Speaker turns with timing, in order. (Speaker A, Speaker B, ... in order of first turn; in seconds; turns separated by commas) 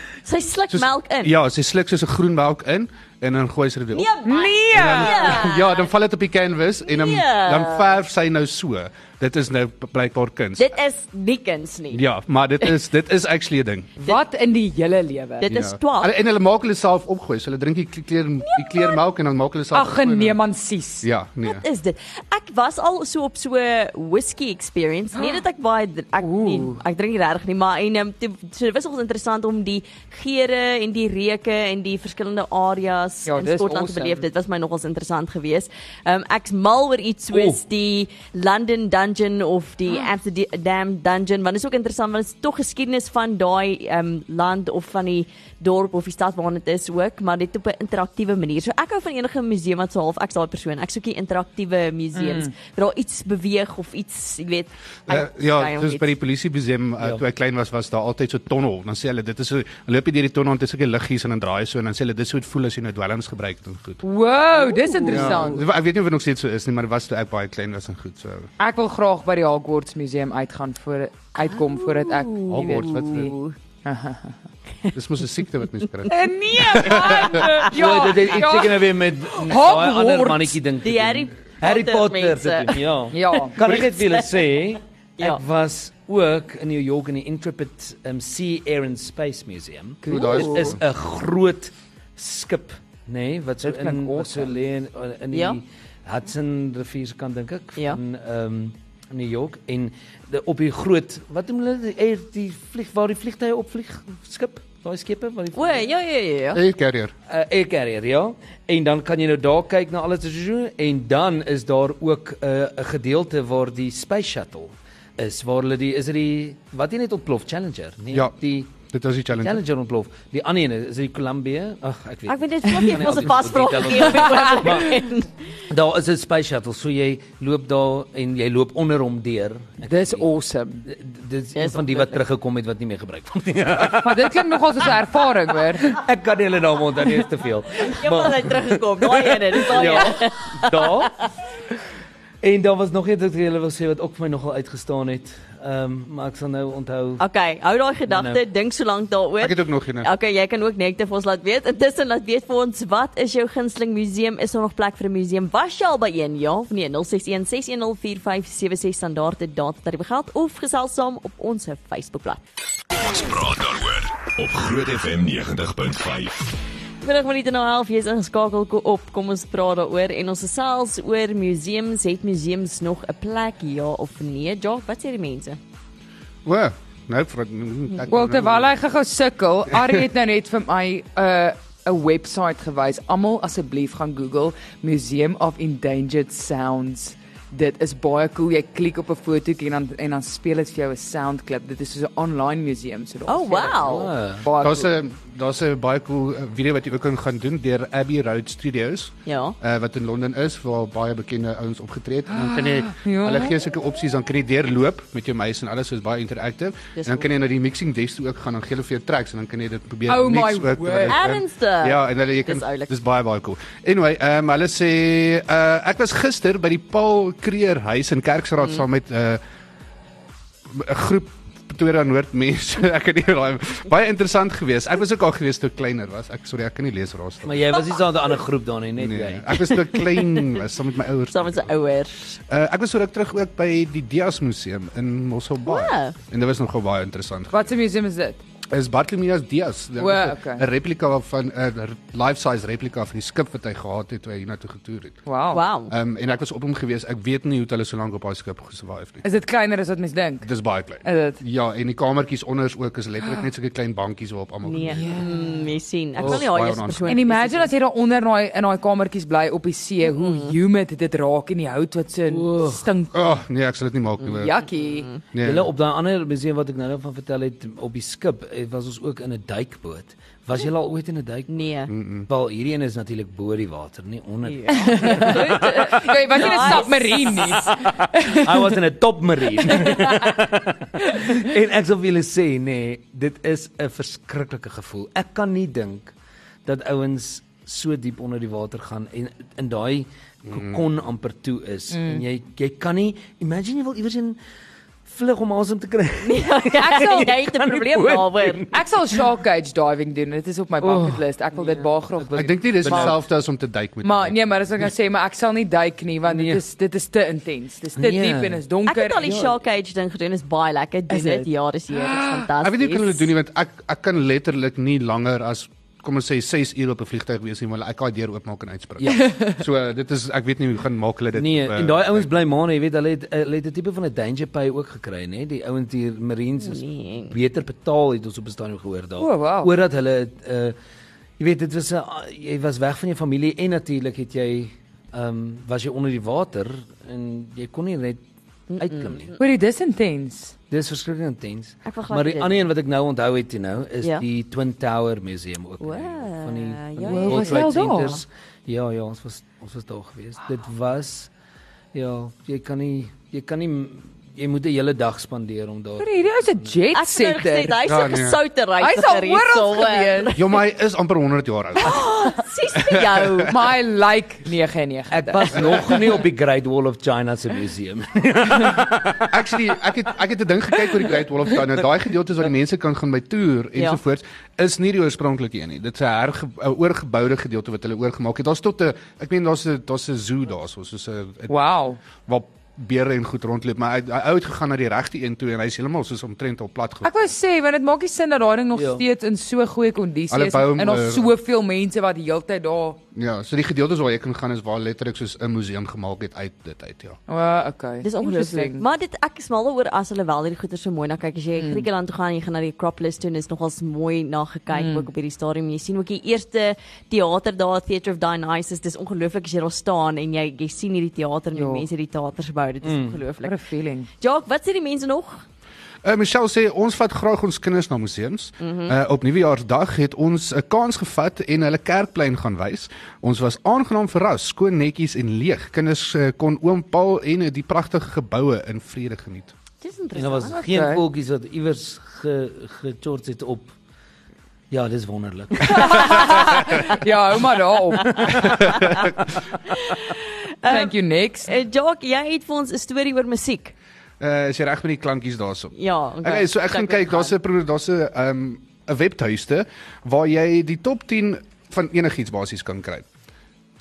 Speaker A: 0.2-1.3, Speaker B: 0.7-4.1, Speaker A: 3.9-5.8, Speaker C: 4.2-5.5, Speaker B: 4.7-10.7, Speaker A: 6.9-7.9, Speaker A: 10.6-12.0, Speaker B: 11.9-13.9, Speaker C: 14.0-15.5, Speaker A: 15.4-16.1, Speaker B: 15.4-20.4, Speaker A: 18.4-19.0, Speaker C: 19.7-21.1, Speaker B: 21.0-21.6, Speaker A: 21.4-56.1, Speaker C: 26.2-26.8, Speaker C: 33.3-34.3, Speaker D: 37.3-37.6, Speaker C: 52.1-52.5, Speaker B: 55.1-64.0, Speaker C: 64.0-65.6, Speaker A: 64.6-65.5, Speaker B: 65.1-68.5, Speaker C: 68.6-73.3, Speaker A: 71.4-73.6, Speaker B: 72.5-73.3, Speaker C: 73.8-74.3, Speaker B: 74.9-77.5, Speaker C: 76.1-80.6, Speaker A: 76.9-77.7, Speaker D: 77.7-105.9, Speaker A: 80.8-82.8, Speaker C: 83.1-83.6, Speaker A: 83.3-84.2, Speaker C: 90.0-90.8, Speaker B: 90.1-90.8, Speaker A: 90.2-90.5, Speaker C: 93.6-94.6, Speaker A: 95.3-95.6, Speaker A: 105.5-106.6, Speaker B: 106.5-107.1, Speaker D: 107.3-118.8, Speaker B: 118.9-119.6, Speaker D: 119.3-125.0, Speaker A: 122.3-125.3, Speaker C: 124.2-124.7, Speaker D: 125.7-130.3, Speaker C: 129.9-130.9, Speaker D: 130.9-135.0, Speaker A: 131.6-132.2, Speaker C: 134.0-136.0, Speaker D: 135.8-141.2, Speaker A: 137.8-140.9, Speaker D: 142.4-147.2, Speaker A: 147.2-162.4, Speaker D: 148.1-148.4, Speaker B: 149.4-150.1, Speaker E: 162.9-166.5, Speaker A: 167.0-175.6, Speaker B: 176.4-178.8, Speaker C: 178.1-194.9, Speaker B: 179.7-180.0, Speaker A: 193.3-194.1, Speaker D: 193.8-194.5, Speaker B: 194.6-219.4, Speaker A: 199.3-199.6, Speaker C: 202.3-203.5, Speaker A: 207.0-207.3, Speaker C: 210.1-211.2, Speaker A: 211.1-212.9, Speaker B: 220.7-227.7, Speaker D: 227.4-229.8, Speaker B: 229.0-231.7, Speaker A: 230.0-230.6, Speaker A: 231.3-232.4, Speaker B: 232.4-237.7, Speaker A: 235.7-236.2, Speaker C: 237.5-238.4, Speaker B: 238.7-245.2, Speaker C: 240.0-240.7, Speaker C: 245.3-245.6, Speaker A: 245.5-245.9, Speaker B: 245.9-249.2, Speaker C: 249.2-250.5, Speaker B: 250.4-255.3, Speaker C: 251.0-251.4, Speaker A: 254.6-257.7, Speaker C: 254.9-255.6, Speaker B: 256.2-257.1, Speaker C: 257.1-263.1, Speaker A: 260.0-260.5, Speaker D: 262.3-262.9, Speaker B: 263.1-264.5, Speaker C: 264.2-265.1, Speaker B: 265.3-265.7, Speaker D: 265.4-271.7, Speaker A: 271.5-271.9, Speaker B: 271.9-272.3, Speaker D: 272.3-276.9, Speaker A: 274.4-277.7, Speaker C: 274.7-278.8, Speaker D: 277.4-286.1, Speaker C: 279.6-280.4, Speaker C: 281.0-281.4, Speaker D: 286.6-294.4, Speaker B: 290.5-290.8, Speaker C: 291.9-292.2, Speaker D: 295.1-299.3, Speaker A: 296.2-298.7, Speaker C: 296.8-297.3, Speaker C: 298.7-303.2, Speaker D: 300.8-303.2, Speaker B: 302.4-304.4, Speaker C: 304.0-309.3, Speaker D: 306.3-306.6, Speaker D: 308.0-308.6, Speaker A: 308.9-313.3, Speaker D: 309.2-309.5, Speaker C: 311.1-312.5, Speaker B: 312.6-322.3, Speaker D: 319.0-319.3, Speaker C: 319.1-319.5, Speaker D: 321.4-330.8, Speaker A: 326.6-327.4, Speaker C: 329.2-329.7, Speaker D: 331.4-338.2, Speaker A: 338.7-339.4, Speaker D: 338.8-339.3, Speaker C: 339.4-340.5, Speaker D: 340.7-351.3, Speaker A: 341.9-342.6, Speaker A: 345.8-348.2, Speaker C: 347.0-348.2, Speaker D: 351.9-356.8, Speaker C: 356.0-357.8, Speaker A: 356.9-360.4, Speaker B: 357.9-358.4, Speaker C: 358.8-360.3, Speaker B: 360.4-362.0, Speaker A: 361.8-363.5, Speaker B: 362.8-363.5, Speaker C: 363.5-366.0, Speaker D: 365.1-369.4, Speaker B: 365.5-365.9, Speaker B: 369.3-381.5, Speaker C: 381.5-382.0, Speaker B: 382.3-387.1, Speaker C: 387.0-393.0, Speaker D: 388.7-389.0, Speaker B: 390.3-391.3, Speaker B: 393.1-397.2, Speaker C: 397.3-398.8, Speaker A: 398.0-413.6, Speaker C: 401.6-401.9, Speaker C: 404.7-405.1, Speaker C: 411.6-411.9, Speaker D: 412.8-413.2, Speaker C: 413.4-414.1, Speaker A: 414.2-415.4, Speaker B: 416.0-429.5, Speaker A: 418.6-418.9, Speaker A: 429.8-430.7, Speaker D: 430.2-433.8, Speaker C: 430.7-431.0, Speaker D: 434.7-437.0, Speaker C: 435.6-438.6, Speaker D: 438.0-439.1, Speaker B: 438.6-439.1, Speaker A: 439.7-443.7, Speaker C: 440.7-441.5, Speaker B: 444.2-453.1, Speaker A: 445.8-447.4